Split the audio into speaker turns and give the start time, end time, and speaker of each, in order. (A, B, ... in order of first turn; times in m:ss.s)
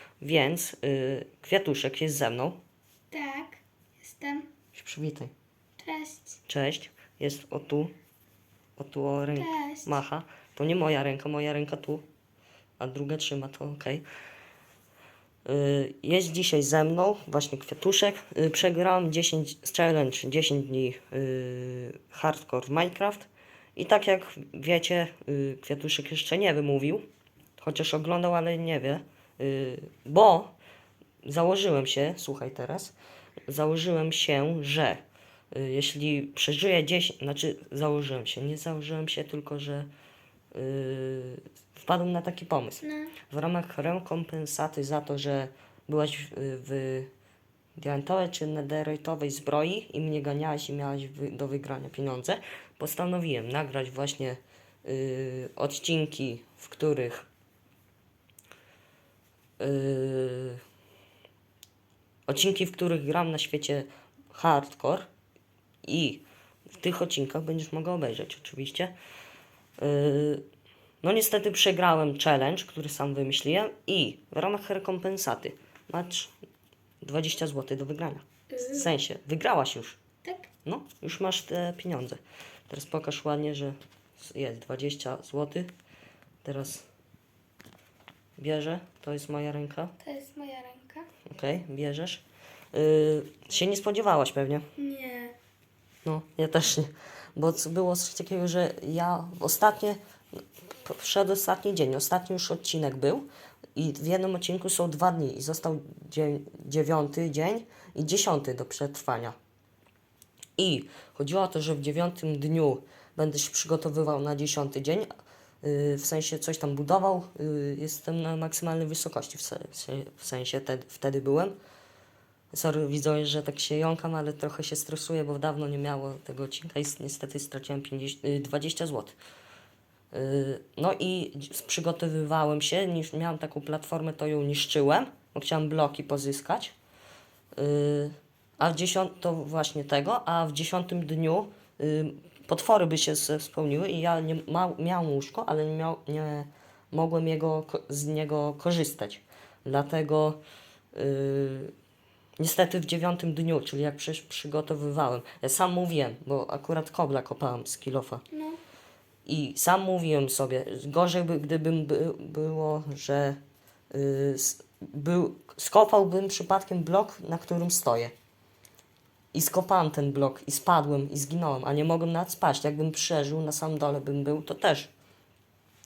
0:00.2-0:02.6 A
0:03.1-0:04.5 B
0:04.7-0:05.3 A
0:05.8-0:06.4 B
0:06.5-0:07.9 A
0:08.8-0:12.0 A
0:09.3-0:09.9 B
0:12.8-0:14.0 A
0:15.4-0:27.0 A
0:27.6-0:30.5 A
0:31.2-0:32.9 A
0:33.5-0:39.9 A
0:40.5-0:47.1 A
0:42.8-0:43.1 B
0:47.8-0:57.3 A
0:59.6-1:00.6 A
1:02.3-1:05.1 A
1:05.8-1:06.2 A
1:06.7-1:08.9 A
1:09.8-1:10.4 A
1:11.0-1:16.3 A
1:17.0-1:20.0 A
1:18.5-1:18.9 B
1:20.2-1:20.5 B
1:20.6-1:25.7 A
1:26.4-1:26.9 A
1:28.4-1:29.9 A
1:30.0-1:31.1 B
1:31.2-1:34.6 A
1:34.8-1:35.4 B
1:36.0-1:40.0 A
1:40.8-1:49.4 A
1:50.6-1:55.1 A
1:55.6-2:01.6 A
2:02.5-2:09.2 A
2:10.1-2:16.7 A
2:17.5-2:30.4 A
2:30.9-2:31.7 A
2:32.4-2:38.2 A
2:38.3-2:38.6 B
2:39.2-2:43.4 A
2:43.9-2:48.1 A
2:49.3-2:54.9 A